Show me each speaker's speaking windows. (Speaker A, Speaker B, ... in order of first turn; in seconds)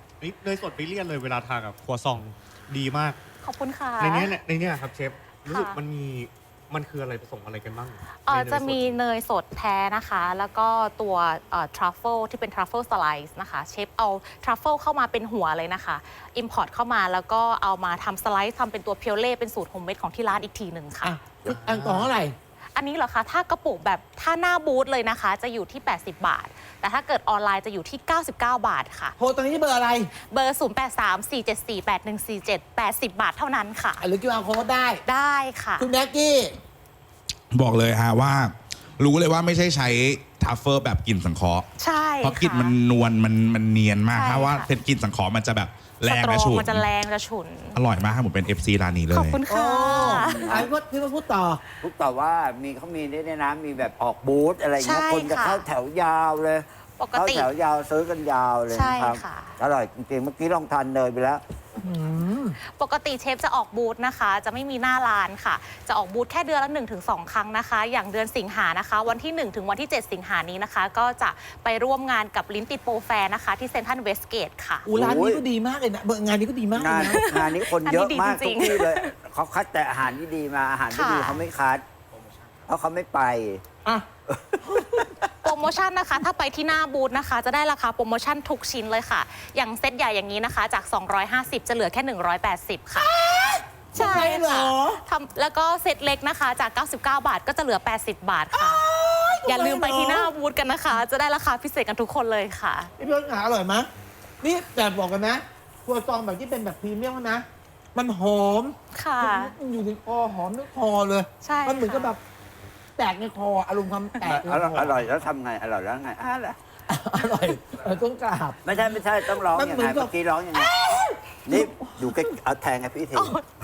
Speaker A: 0.2-3.2, 4.0-9.0
Speaker B: 3.4-4.4, 5.5-5.8, 8.2-21.2, 22.8-29.1, 30.3-34.0, 35.1-35.9, 41.8-42.8, 44.1-44.7, 46.0-47.8, 49.1-50.7, 54.8-55.6, 57.0-57.5, 58.7-59.5, 62.7-74.9, 77.1-79.1, 80.9-81.4, 85.4-93.1, 93.9-98.8, 99.4-102.9, 108.9-109.5, 111.4-112.2, 123.2-123.4
Speaker C: 21.0-22.4, 29.2-30.1, 34.0-35.0, 35.8-36.6, 49.5-51.6, 61.8-62.6, 74.9-77.3, 84.6-85.1, 93.0-95.0, 98.5-100.3, 103.0-103.9, 104.4-112.2, 113.0-115.0, 116.9-118.6, 119.2-122.3
Speaker D: 21.4-22.1, 50.0-50.7, 51.8-61.4, 74.9-75.4, 76.8-81.8, 82.7-83.6, 84.3-85.1, 93.9-94.3, 114.2-116.6, 118.6-120.7, 121.5-123.4
Speaker E: 37.5-41.7, 42.2-46.9, 47.8-49.4